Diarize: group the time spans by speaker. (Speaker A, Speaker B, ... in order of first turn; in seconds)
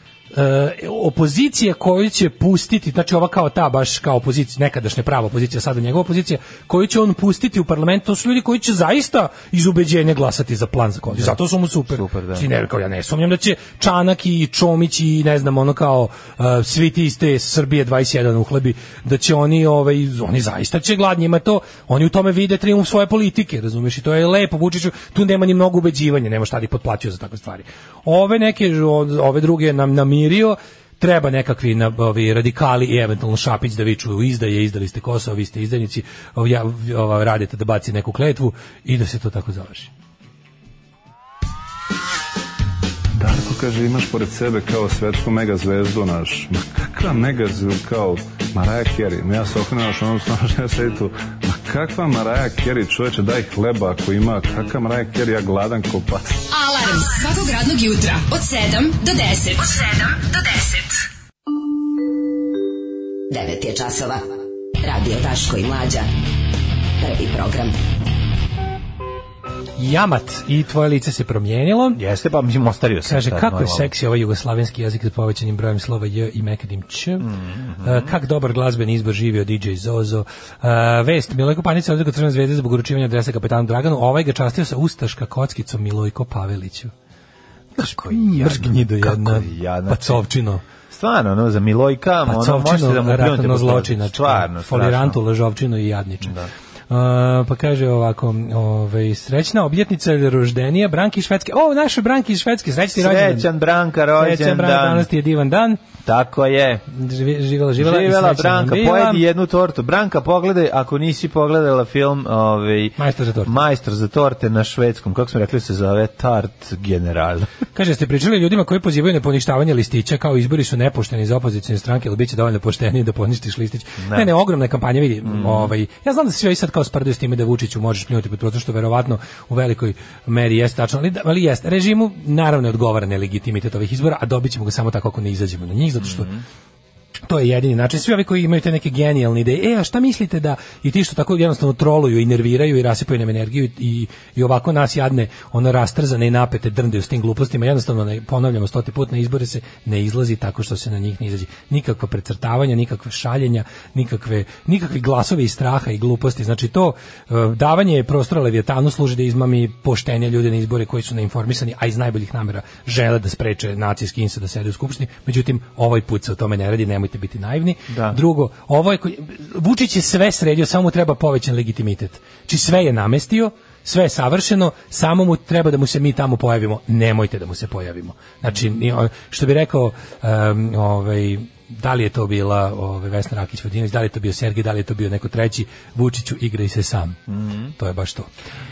Speaker A: 0.3-39.9, 69.8-72.0, 73.0-77.3, 77.8-86.9, 87.8-90.7, 92.3-96.3, 96.9-103.5, 104.2-105.8, 106.9-109.2, 113.0-113.6, 117.8-136.3, 137.3-187.2, 187.8-188.3
Speaker B: 11.1-12.5, 72.0-73.9, 77.2-78.1, 87.8-90.2, 90.9-95.2, 96.2-96.5, 102.9-105.1, 106.0-106.8, 107.8-117.5, 124.0-124.3, 125.2-125.7, 136.0-136.4, 167.9-168.2, 187.3-187.7
Speaker C: 43.2-56.3
Speaker D: 56.5-61.0
Speaker E: 63.3-64.3, 64.8-66.1, 67.0-67.8